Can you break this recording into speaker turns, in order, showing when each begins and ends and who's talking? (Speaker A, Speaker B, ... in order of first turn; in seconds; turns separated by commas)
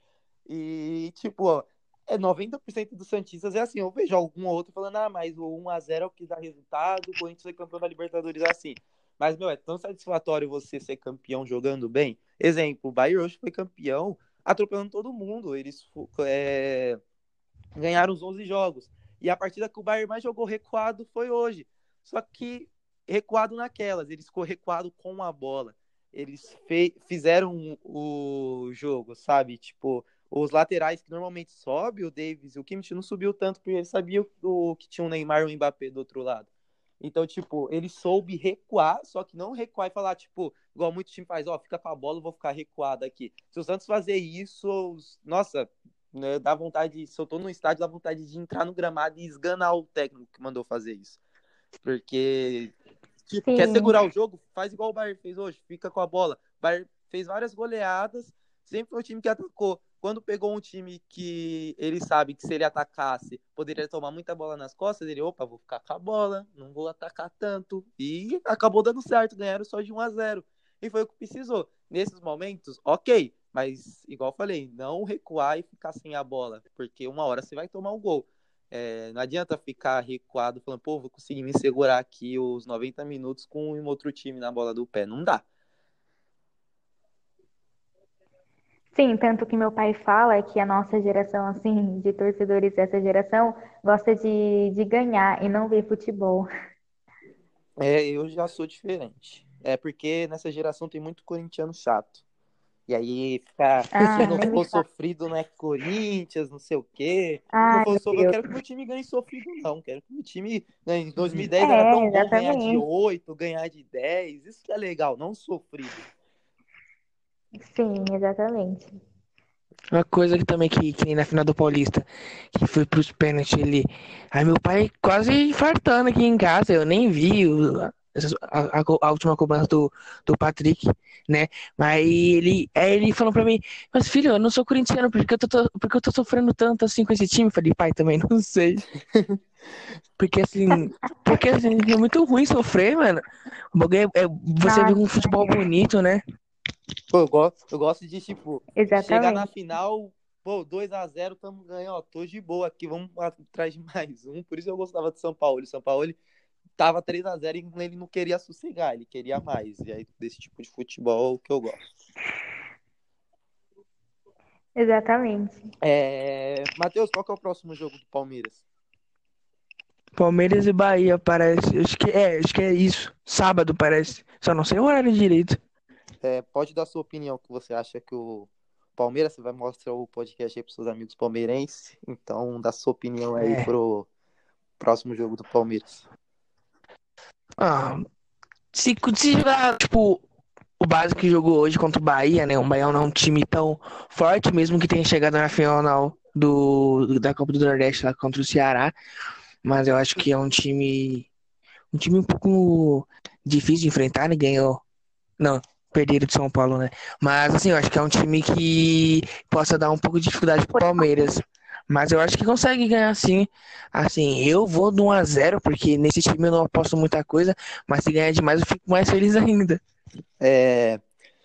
Speaker A: 0.5-17.0, Speaker A: 17.8-36.5, Speaker A: 37.0-51.2, Speaker A: 51.8-52.7, Speaker A: 53.3-85.4, Speaker B: 53.5-54.0, Speaker B: 88.9-96.5, Speaker A: 97.8-102.2, Speaker A: 102.9-116.0, Speaker B: 103.9-104.8, Speaker B: 107.5-108.4, Speaker B: 111.6-112.8, Speaker B: 117.6-118.9, Speaker C: 119.9-138.9, Speaker C: 140.2-146.2, Speaker B: 144.6-145.6, Speaker A: 147.1-156.2, Speaker B: 148.8-149.4, Speaker A: 156.8-161.8, Speaker B: 164.8-165.6, Speaker A: 165.8-168.6, Speaker C: 170.2-175.6, Speaker A: 176.2-184.1, Speaker C: 183.4-183.7, Speaker A: 184.8-186.0, Speaker C: 187.6-188.1, Speaker C: 188.7-190.2, Speaker C: 190.8-198.9, Speaker C: 199.6-201.3, Speaker C: 201.9-204.8, Speaker C: 205.4-219.8, Speaker B: 210.7-211.1, Speaker A: 220.4-221.0